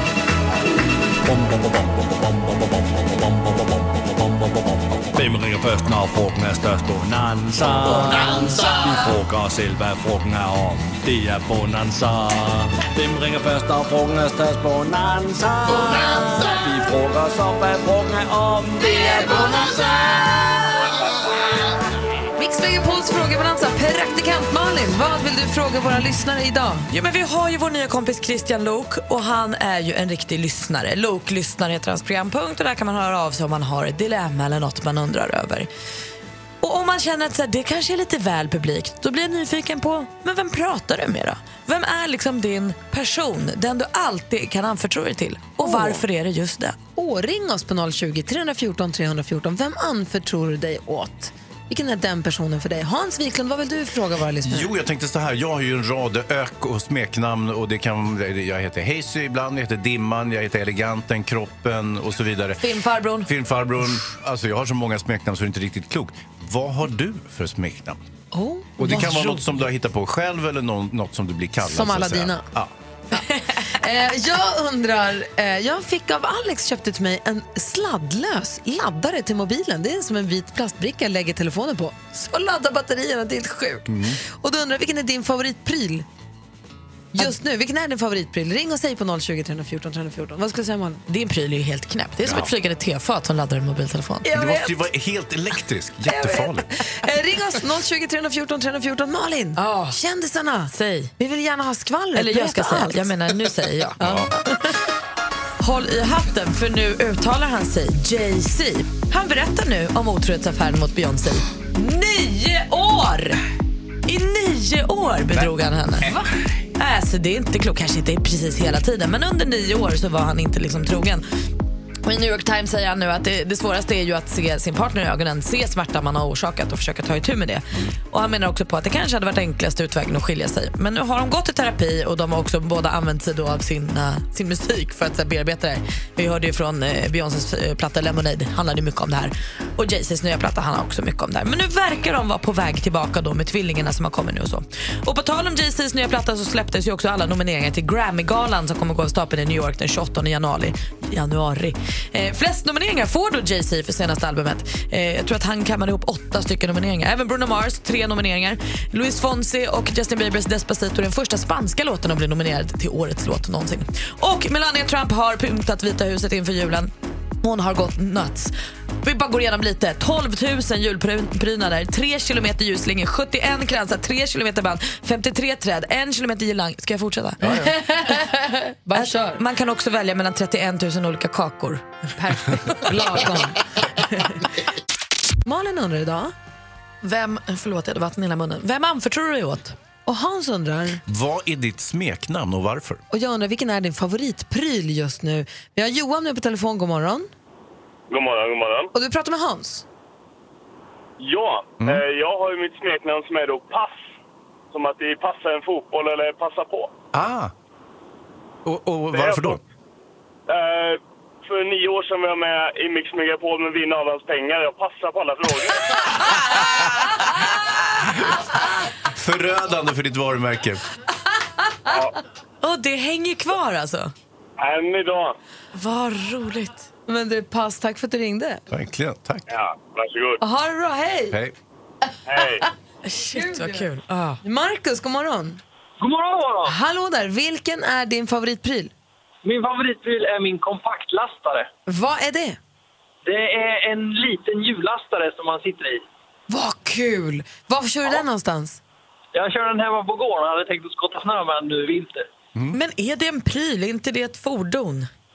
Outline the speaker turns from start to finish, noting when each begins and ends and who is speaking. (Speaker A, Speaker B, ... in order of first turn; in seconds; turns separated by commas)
Speaker A: 1.3-2.4, Speaker A: 3.1-4.5, Speaker A: 5.1-19.5, Speaker B: 18.9-20.9, Speaker B: 22.4-26.9, Speaker C: 26.9-35.7, Speaker C: 36.6-46.8, Speaker B: 45.6-46.0, Speaker B: 47.0-54.7, Speaker D: 54.4-62.7, Speaker C: 62.6-63.3, Speaker D: 63.2-68.0, Speaker B: 68.3-69.5, Speaker D: 68.8-72.7, Speaker B: 71.6-72.5, Speaker B: 73.1-86.1, Speaker D: 83.9-84.2, Speaker B: 87.1-91.0, Speaker C: 91.1-94.3, Speaker D: 92.2-92.5, Speaker B: 94.2-94.8, Speaker D: 94.3-96.7, Speaker B: 96.1-103.1, Speaker C: 99.6-100.0, Speaker C: 100.7-101.1, Speaker C: 102.2-104.0, Speaker B: 104.0-104.8, Speaker D: 104.0-104.3, Speaker C: 105.6-113.4, Speaker C: 114.1-116.2, Speaker D: 116.0-116.3, Speaker C: 116.8-121.2, Speaker C: 122.0-166.9, Speaker C: 167.4-177.6, Speaker B: 177.4-179.4, Speaker C: 178.9-181.9, Speaker B: 182.8-184.4, Speaker B: 185.4-186.3, Speaker C: 187.0-189.8, Speaker B: 190.1-191.0, Speaker D: 191.1-193.0, Speaker B: 193.1-197.3, Speaker E: 198.1-198.9, Speaker B: 198.9-199.8, Speaker E: 201.2-204.0, Speaker E: 204.7-206.9, Speaker D: 207.1-207.5, Speaker D: 208.7-209.6, Speaker E: 209.1-209.6, Speaker E: 210.5-216.1, Speaker D: 216.5-217.1, Speaker D: 219.0-220.8, Speaker E: 221.9-222.1, Speaker C: 222.6-224.1, Speaker E: 224.6-225.3, Speaker C: 225.8-226.9, Speaker B: 227.1-228.6, Speaker D: 228.7-229.4, Speaker E: 229.5-230.4, Speaker B: 230.4-231.4, Speaker D: 231.3-231.6, Speaker E: 232.3-232.6, Speaker C: 233.1-234.4, Speaker B: 233.3-233.9, Speaker B: 234.4-235.6, Speaker F: 236.0-236.8, Speaker B: 236.7-238.9, Speaker F: 239.4-241.7, Speaker B: 241.9-242.6, Speaker F: 243.2-246.1, Speaker B: 246.5-248.8, Speaker F: 249.3-252.3, Speaker C: 252.7-255.1